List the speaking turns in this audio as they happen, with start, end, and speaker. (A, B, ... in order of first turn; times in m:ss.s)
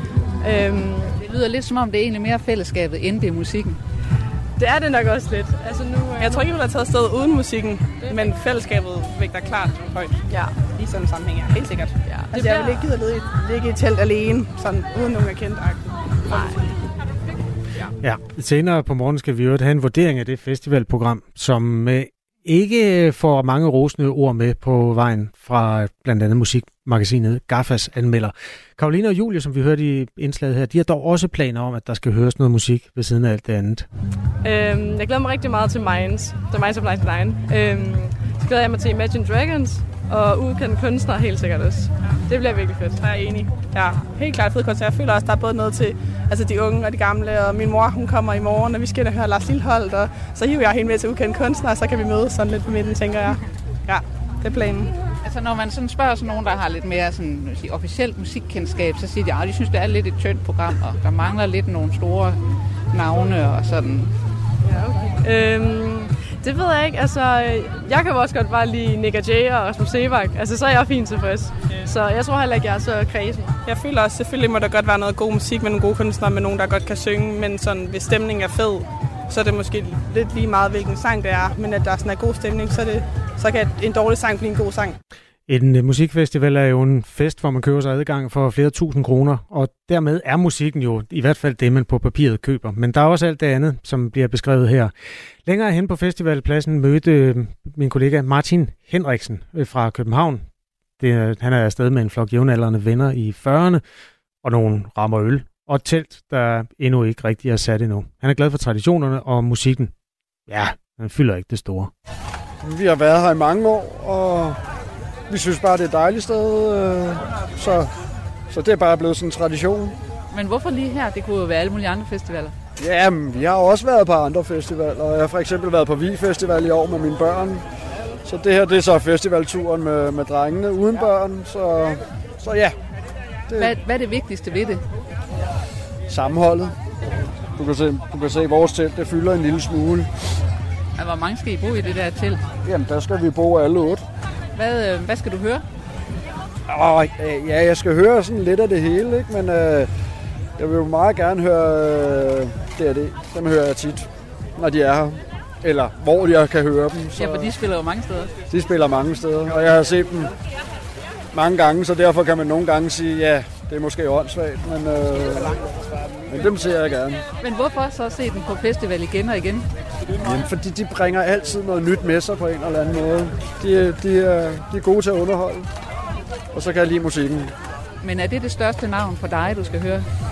0:00.4-0:01.1 A
0:01.2-0:03.8 B
0:04.6-0:06.5 A
0:06.2-0:16.6 C
0:08.0-0:08.3 A
0:12.1-0:12.9 A
0:18.0-0:33.9 D
0:34.4-0:43.0 A
0:43.0-0:55.0 C
0:55.2-1:02.4 B
1:02.9-1:04.1 B
1:04.6-1:13.6 A
1:13.6-1:25.0 C
1:25.5-1:34.9 D
1:35.4-1:40.4 D
1:41.0-1:43.8 D
1:44.4-1:49.9 D
1:50.5-1:51.9 D
1:52.6-1:54.6 E
1:55.3-1:57.9 E
1:58.5-1:59.9 E
2:00.3-2:02.5 B
2:02.8-2:07.6 E
2:08.2-2:12.8 E
2:13.6-2:14.8 B
2:16.1-2:16.7 E
2:17.6-2:20.1 E
2:21.0-2:22.4 B
2:22.6-2:24.0 E
2:24.5-2:25.6 B
2:26.7-2:29.9 E
2:30.6-2:37.5 E
2:37.1-2:38.3 B
2:38.5-2:40.3 E
2:41.3-2:45.6 E
2:46.3-2:47.2 E
2:47.4-2:49.7 B
2:50.2-2:55.7 E
2:56.5-2:57.5 E
2:58.0-3:00.1 B